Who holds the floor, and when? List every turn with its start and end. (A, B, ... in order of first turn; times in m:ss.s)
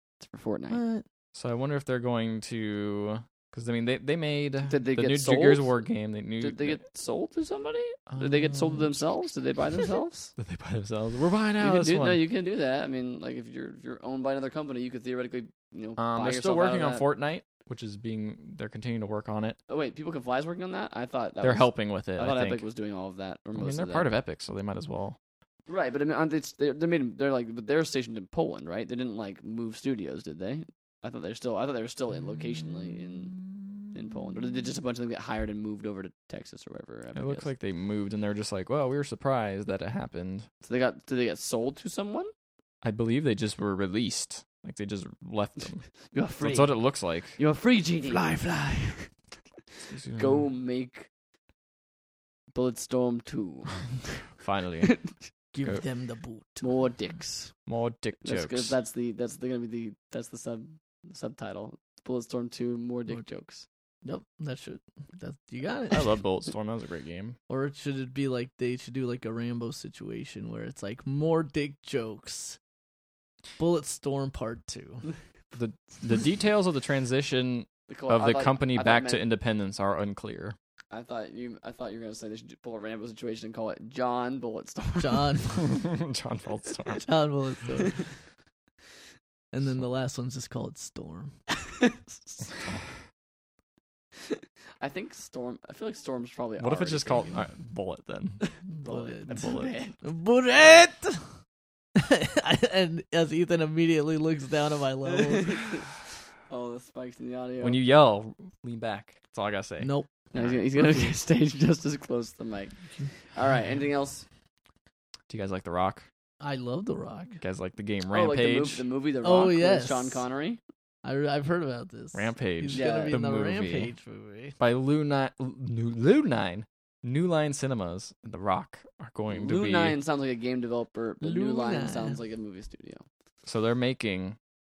0:00.2-0:00.8 A
0:00.7-0:01.0 B
0:01.4-0:06.8 C
0:04.7-0:05.8 A
0:06.4-0:10.3 A
0:08.1-0:09.0 C
0:10.4-0:12.2 C
0:11.6-0:17.1 A
0:16.0-0:19.6 C
0:19.7-0:24.1 A
0:21.4-0:22.6 C
0:23.6-0:25.2 C
0:25.7-0:33.3 A
0:32.3-0:34.4 C
0:33.9-0:37.5 A
0:37.2-0:40.5 C
0:40.6-0:42.3 A
0:42.8-0:45.9 C
0:46.1-0:46.8 A
0:46.4-0:47.4 C
0:47.4-0:48.3 A
0:48.1-0:49.1 B
0:49.9-0:50.5 C
0:50.1-0:51.1 A
0:52.5-0:53.9 A
0:54.4-0:55.0 C
0:54.9-0:55.1 A
0:55.5-0:56.8 B
0:56.6-0:57.6 A
0:57.7-0:58.8 C
0:58.2-1:03.7 A
1:04.0-1:06.2 B
1:05.9-1:07.4 C
1:07.5-1:12.6 B
1:13.6-1:15.1 B
1:15.5-1:20.6 C
1:17.9-1:19.2 A
1:20.9-1:25.3 A
1:25.0-1:25.8 B
1:25.5-1:27.1 C
1:27.0-1:28.1 B
1:29.5-1:31.3 B
1:31.8-1:32.5 A
1:34.8-1:37.4 A
1:36.6-1:38.4 C
1:38.4-1:40.0 A
1:38.7-1:41.4 B
1:39.3-1:39.7 C
1:42.0-1:45.9 B
1:45.1-1:46.0 A
1:46.5-1:47.8 A
1:47.6-1:50.6 C
1:49.8-1:50.1 B
1:50.3-1:54.3 A
1:55.3-1:56.1 C
1:56.4-1:57.4 B
1:57.4-1:58.8 C
1:58.1-2:00.6 A
1:59.2-2:00.2 B
2:01.0-2:04.6 B
2:02.1-2:03.9 C
2:02.7-2:03.2 A
2:04.6-2:10.0 C
2:09.3-2:13.0 A
2:11.2-2:12.2 B
2:13.4-2:14.4 C